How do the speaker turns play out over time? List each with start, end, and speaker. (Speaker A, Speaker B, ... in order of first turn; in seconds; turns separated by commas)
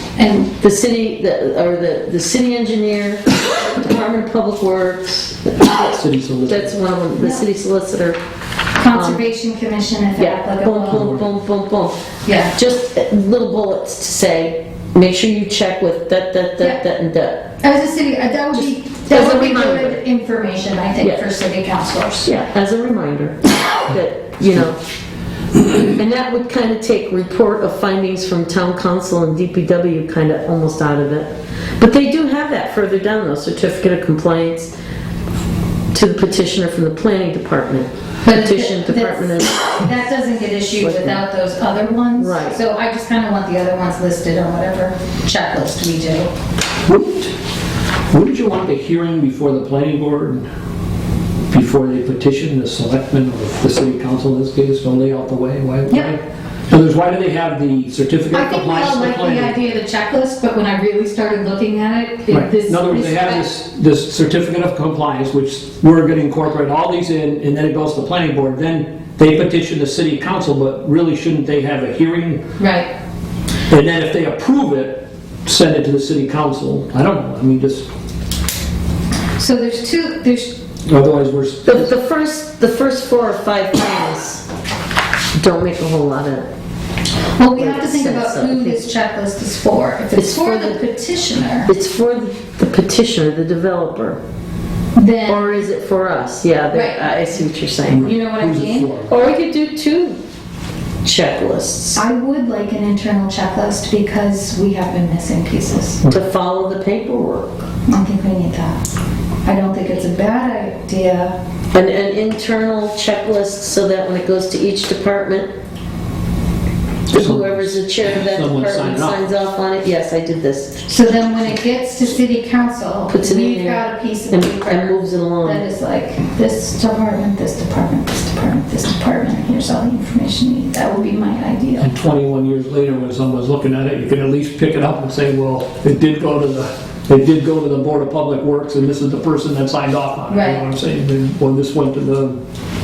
Speaker A: 0.2-0.5, Speaker B: 0.6-5.9, Speaker C: 5.7-6.8, Speaker B: 6.5-8.2, Speaker A: 7.2-7.5, Speaker A: 8.8-11.3, Speaker B: 8.9-9.2, Speaker B: 10.2-12.0, Speaker A: 12.3-12.6, Speaker B: 12.5-17.5, Speaker A: 17.6-22.3, Speaker B: 18.5-20.0, Speaker B: 21.0-21.3, Speaker B: 22.2-24.8, Speaker B: 25.9-34.7, Speaker B: 35.9-39.8, Speaker A: 38.2-46.3, Speaker B: 40.8-41.2, Speaker B: 42.2-42.6, Speaker C: 46.9-47.3, Speaker C: 48.1-50.5, Speaker C: 51.5-59.7, Speaker A: 55.9-56.2, Speaker A: 58.3-63.5, Speaker C: 62.3-72.5, Speaker A: 72.6-72.9, Speaker C: 73.7-77.9, Speaker A: 79.4-80.6, Speaker C: 80.8-81.9, Speaker B: 81.7-84.5, Speaker B: 85.3-86.5, Speaker A: 87.4-91.7, Speaker B: 87.5-88.8, Speaker B: 90.2-90.8, Speaker B: 91.7-94.2, Speaker A: 95.0-95.7, Speaker B: 95.3-98.2, Speaker A: 96.7-99.0, Speaker C: 97.9-99.1, Speaker B: 99.1-100.2, Speaker B: 101.0-102.0, Speaker A: 102.0-106.0, Speaker B: 106.1-107.7, Speaker A: 107.9-108.8, Speaker A: 109.5-111.3, Speaker B: 111.7-115.5, Speaker C: 117.1-119.3, Speaker B: 117.1-120.8, Speaker A: 120.9-132.0, Speaker B: 123.1-125.6, Speaker C: 131.8-142.4, Speaker A: 140.3-140.7